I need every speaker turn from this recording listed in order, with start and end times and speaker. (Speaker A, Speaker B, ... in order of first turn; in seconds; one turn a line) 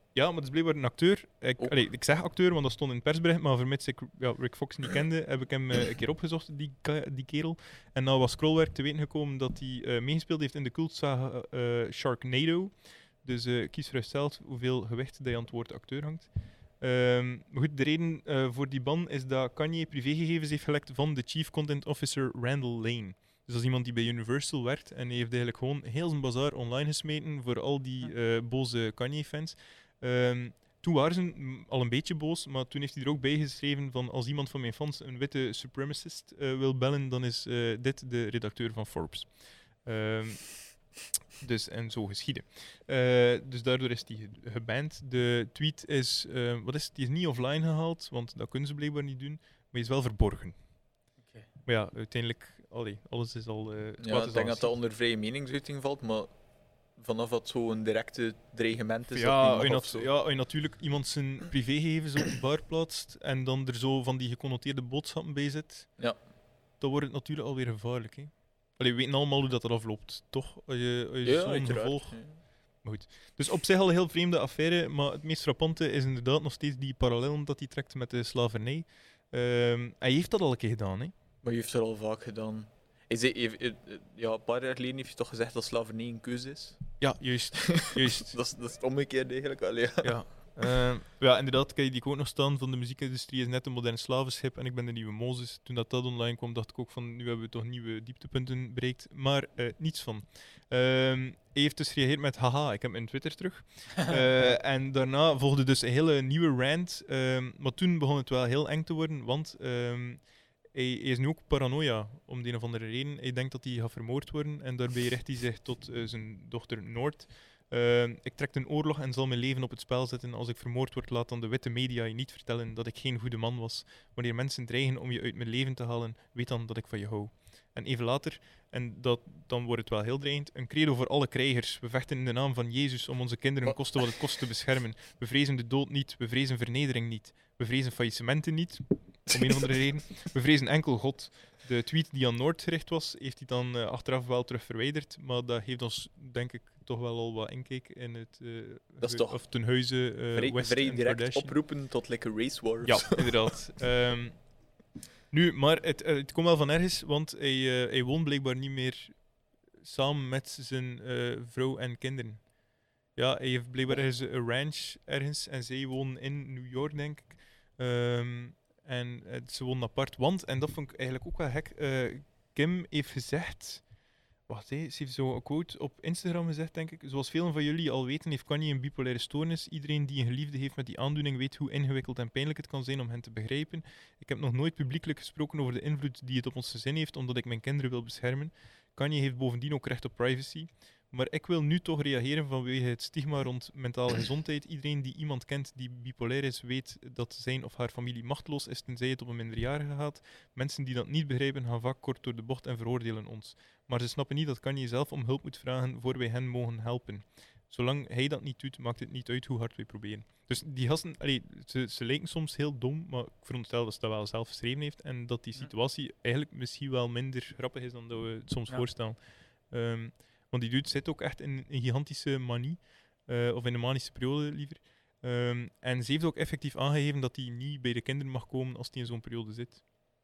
Speaker A: 0.1-16.3
Speaker A: 16.8-39.3
Speaker A: 39.8-40.6
Speaker A: 41.4-50.5
Speaker A: 51.6-54.7
Speaker B: 54.0-56.3
Speaker B: 57.0-60.1
Speaker A: 59.1-65.9
Speaker A: 66.8-72.2
Speaker B: 71.2-72.3
Speaker A: 72.8-81.1
Speaker B: 81.4-86.8
Speaker A: 87.0-88.3
Speaker B: 87.6-90.2
Speaker A: 90.0-151.6
Speaker B: 139.3-139.6
Speaker B: 149.0-149.4
Speaker B: 150.3-153.5
Speaker A: 152.8-154.4
Speaker A: 155.3-159.2
Speaker A: 159.8-162.4
Speaker A: 163.2-173.8
Speaker A: 174.5-219.2
Speaker A: 219.7-229.8